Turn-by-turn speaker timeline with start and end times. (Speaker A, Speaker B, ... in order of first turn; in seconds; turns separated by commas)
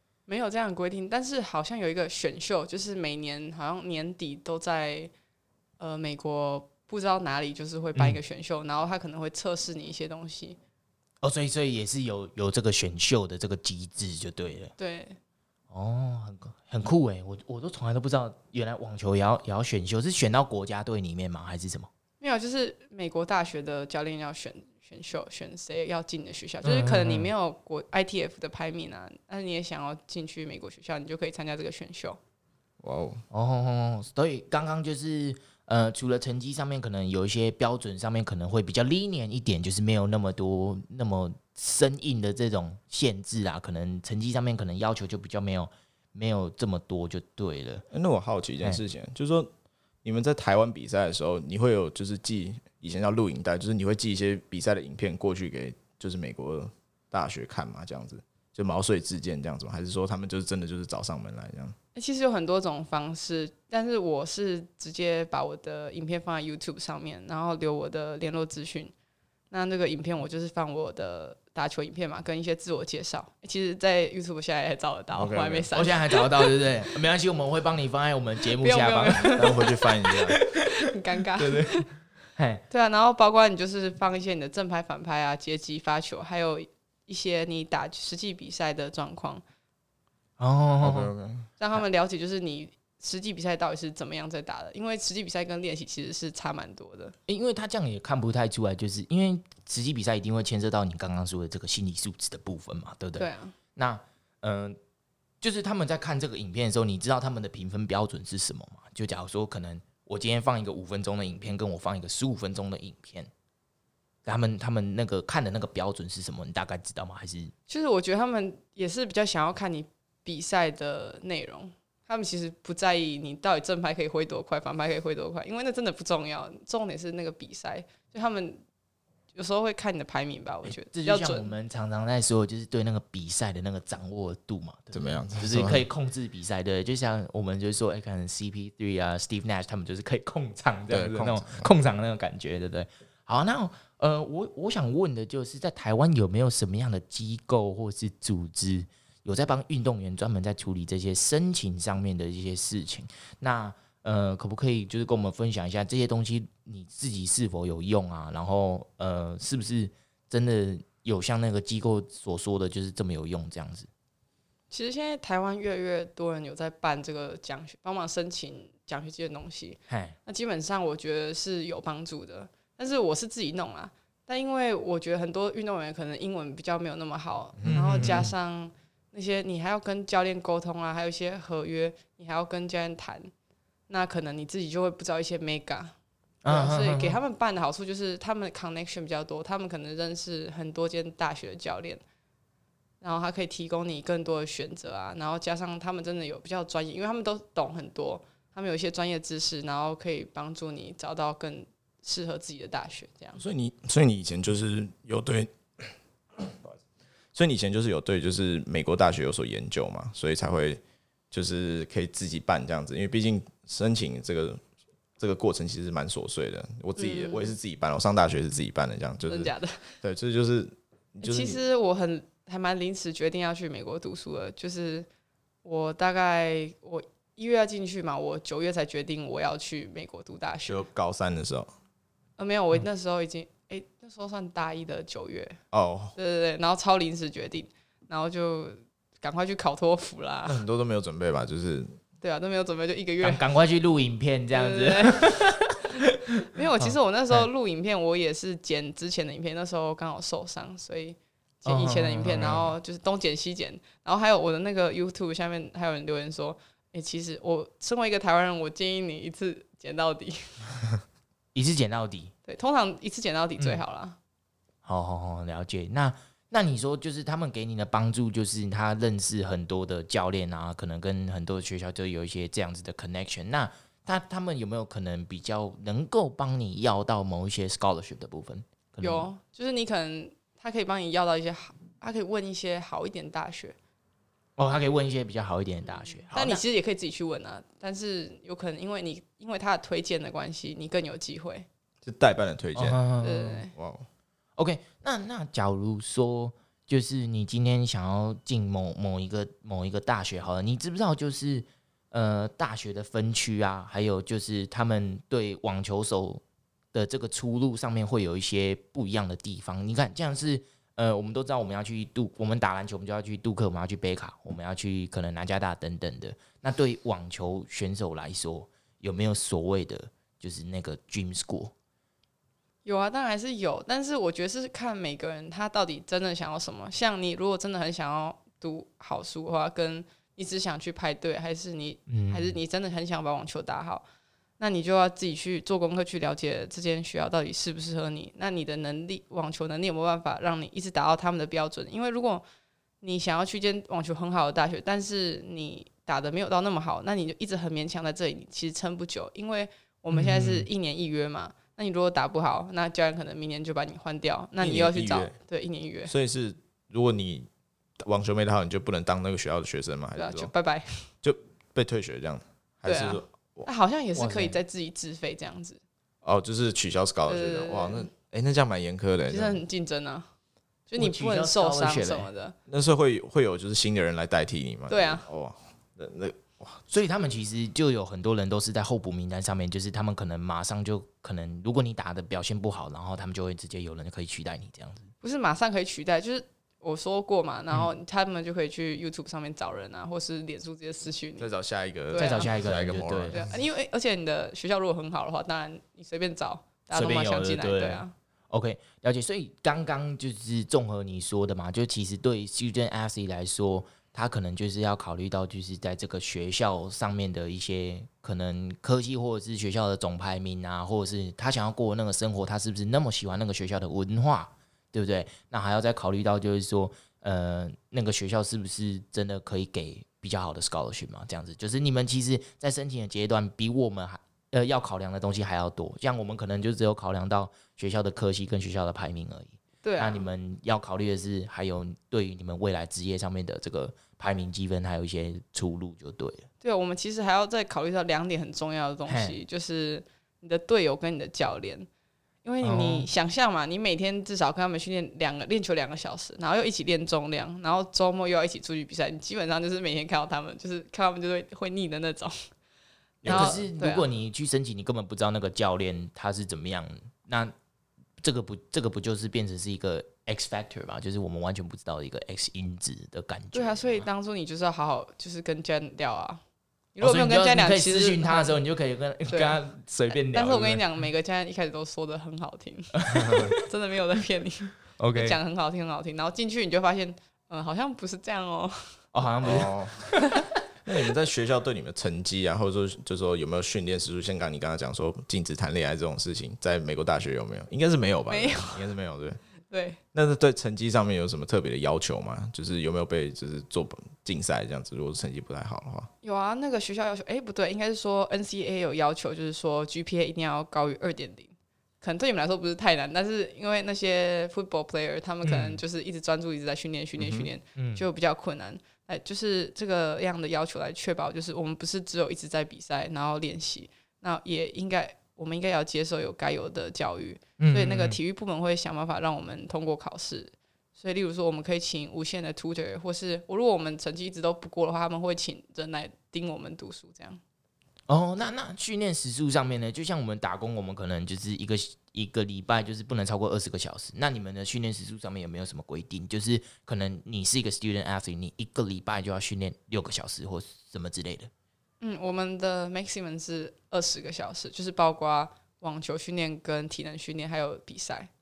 Speaker A: 0.3-5.1, Speaker A: 5.8-10.6, Speaker B: 11.2-14.7, Speaker A: 14.8-15.2, Speaker B: 15.7-21.9, Speaker A: 22.2-32.2, Speaker B: 26.6-27.3, Speaker C: 32.8-33.2, Speaker B: 33.3-47.9, Speaker C: 47.9-49.5, Speaker C: 50.0-61.8, Speaker A: 61.9-68.9, Speaker A: 69.5-76.7, Speaker C: 75.1-75.7, Speaker B: 75.7-79.5, Speaker A: 78.6-79.8, Speaker C: 79.3-80.4, Speaker B: 80.3-80.7, Speaker A: 80.6-81.9, Speaker B: 81.4-81.8, Speaker B: 82.3-82.6, Speaker A: 82.7-89.4, Speaker B: 90.4-91.1, Speaker C: 90.8-91.5, Speaker A: 91.6-97.1, Speaker B: 97.3-104.8, Speaker A: 103.2-103.5, Speaker B: 105.4-113.3, Speaker B: 114.2-117.5, Speaker A: 117.7-128.6, Speaker A: 129.3-131.5, Speaker B: 130.6-163.9, Speaker C: 134.9-135.8, Speaker C: 140.9-141.7, Speaker A: 164.7-183.3, Speaker B: 169.9-170.2, Speaker C: 177.6-178.3, Speaker B: 177.7-178.3, Speaker A: 183.9-185.9, Speaker B: 186.4-187.2, Speaker A: 186.4-192.0, Speaker A: 193.0-203.4, Speaker C: 203.4-206.7, Speaker C: 207.3-214.6, Speaker C: 215.2-221.6, Speaker A: 217.0-217.5, Speaker A: 219.3-220.0, Speaker A: 221.2-225.1, Speaker A: 225.6-230.8, Speaker C: 230.7-231.7, Speaker A: 232.4-235.6, Speaker C: 235.7-236.1, Speaker A: 236.2-240.6, Speaker C: 240.4-241.9, Speaker A: 242.2-243.4, Speaker B: 243.2-247.4, Speaker A: 244.5-245.8, Speaker A: 246.5-260.7, Speaker B: 251.7-252.7, Speaker B: 261.5-262.3, Speaker A: 262.4-264.2, Speaker B: 264.8-279.3, Speaker A: 279.0-283.8, Speaker B: 284.6-286.6, Speaker A: 285.9-291.7, Speaker C: 292.0-293.0, Speaker B: 292.8-293.6, Speaker A: 293.2-293.7, Speaker C: 293.7-294.1, Speaker B: 294.6-306.4, Speaker B: 306.9-321.7, Speaker A: 322.8-334.0, Speaker B: 332.1-332.6, Speaker A: 334.6-342.4, Speaker A: 343.0-356.1, Speaker B: 350.1-350.7, Speaker C: 354.6-355.3, Speaker C: 356.1-357.5, Speaker C: 358.0-360.5, Speaker A: 360.2-361.1, Speaker C: 361.2-363.7, Speaker A: 362.9-365.8, Speaker B: 364.1-364.6, Speaker C: 366.2-369.6, Speaker A: 367.3-368.1, Speaker A: 369.3-370.3, Speaker A: 370.9-372.5, Speaker B: 371.0-372.3, Speaker C: 372.7-376.8, Speaker A: 374.9-375.2, Speaker B: 376.9-385.1, Speaker A: 385.2-391.5, Speaker C: 391.4-393.5, Speaker A: 392.1-392.5, Speaker B: 392.1-393.4, Speaker A: 393.3-398.1, Speaker B: 396.9-436.5, Speaker A: 429.8-430.2, Speaker A: 436.6-441.9, Speaker B: 439.1-439.4, Speaker A: 442.4-452.4, Speaker B: 442.6-443.1, Speaker A: 453.2-454.0, Speaker C: 453.2-453.5, Speaker B: 453.2-457.5, Speaker B: 458.2-464.0, Speaker A: 463.5-466.4, Speaker A: 466.9-468.6, Speaker B: 467.0-470.8, Speaker A: 469.3-469.6, Speaker A: 470.1-478.9, Speaker B: 473.0-473.6, Speaker B: 475.0-475.4, Speaker B: 479.1-480.4, Speaker C: 479.4-480.0, Speaker C: 480.8-489.4, Speaker A: 488.3-488.9, Speaker A: 489.7-490.0, Speaker C: 490.1-496.1, Speaker A: 496.2-527.4, Speaker B: 505.4-505.8, Speaker C: 507.2-507.5, Speaker B: 507.8-508.0, Speaker B: 517.6-518.2, Speaker B: 528.1-541.5, Speaker A: 542.0-548.3